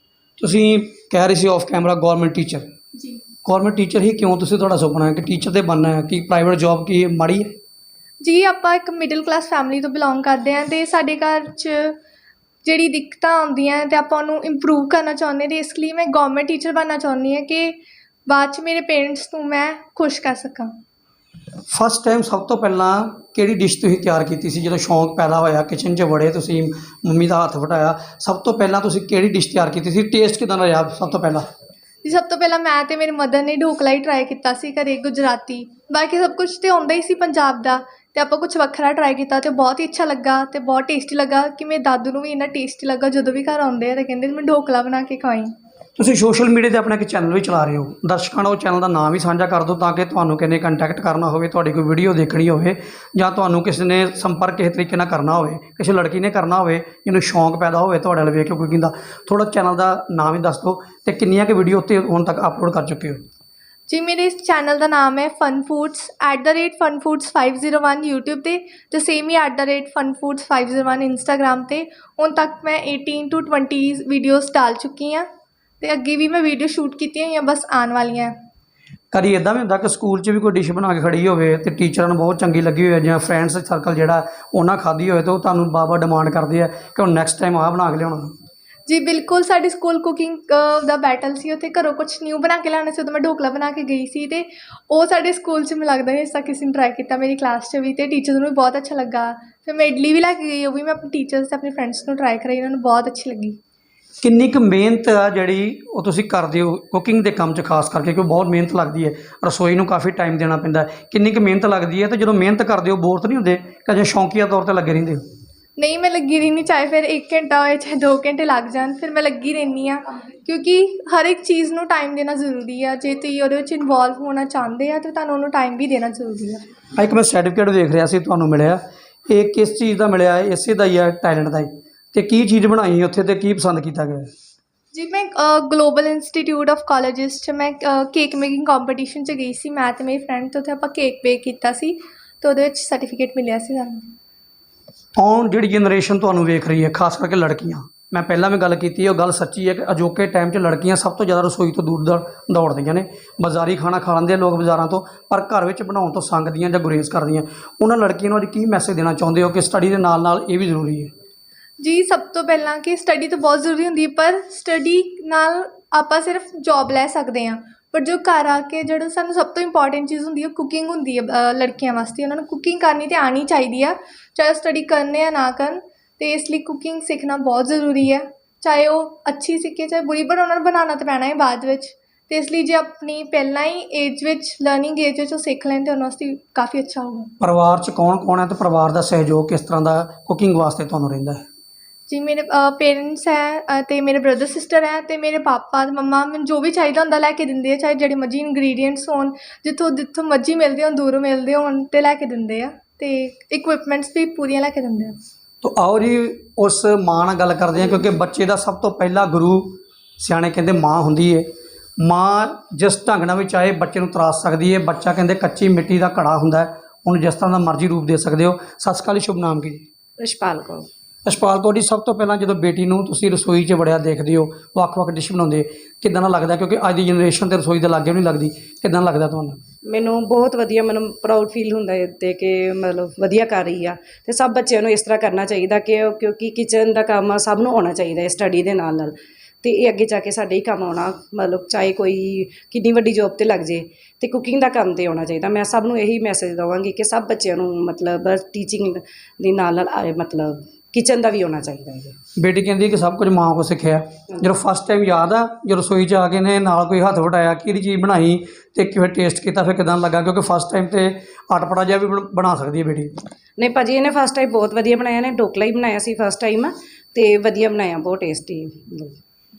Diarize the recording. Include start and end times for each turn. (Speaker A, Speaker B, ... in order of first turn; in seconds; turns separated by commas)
Speaker A: 0.4-2.7, Speaker B: 3.0-3.2, Speaker A: 3.4-7.5, Speaker B: 8.2-11.9, Speaker B: 12.6-17.8, Speaker B: 18.3-20.7, Speaker A: 21.7-31.4, Speaker B: 32.0-45.5, Speaker A: 46.0-63.2, Speaker B: 63.9-75.3, Speaker B: 75.8-78.3, Speaker A: 79.1-88.3, Speaker B: 88.9-103.6, Speaker A: 104.2-115.2, Speaker B: 115.8-126.6, Speaker A: 127.0-134.3, Speaker B: 134.9-144.1, Speaker A: 145.2-161.1, Speaker B: 161.8-187.3, Speaker A: 187.4-191.4, Speaker B: 192.1-205.2, Speaker A: 205.6-211.5, Speaker A: 212.0-219.8, Speaker C: 220.2-220.9, Speaker A: 221.2-229.6, Speaker C: 229.9-252.2, Speaker A: 252.4-263.1, Speaker C: 263.6-269.2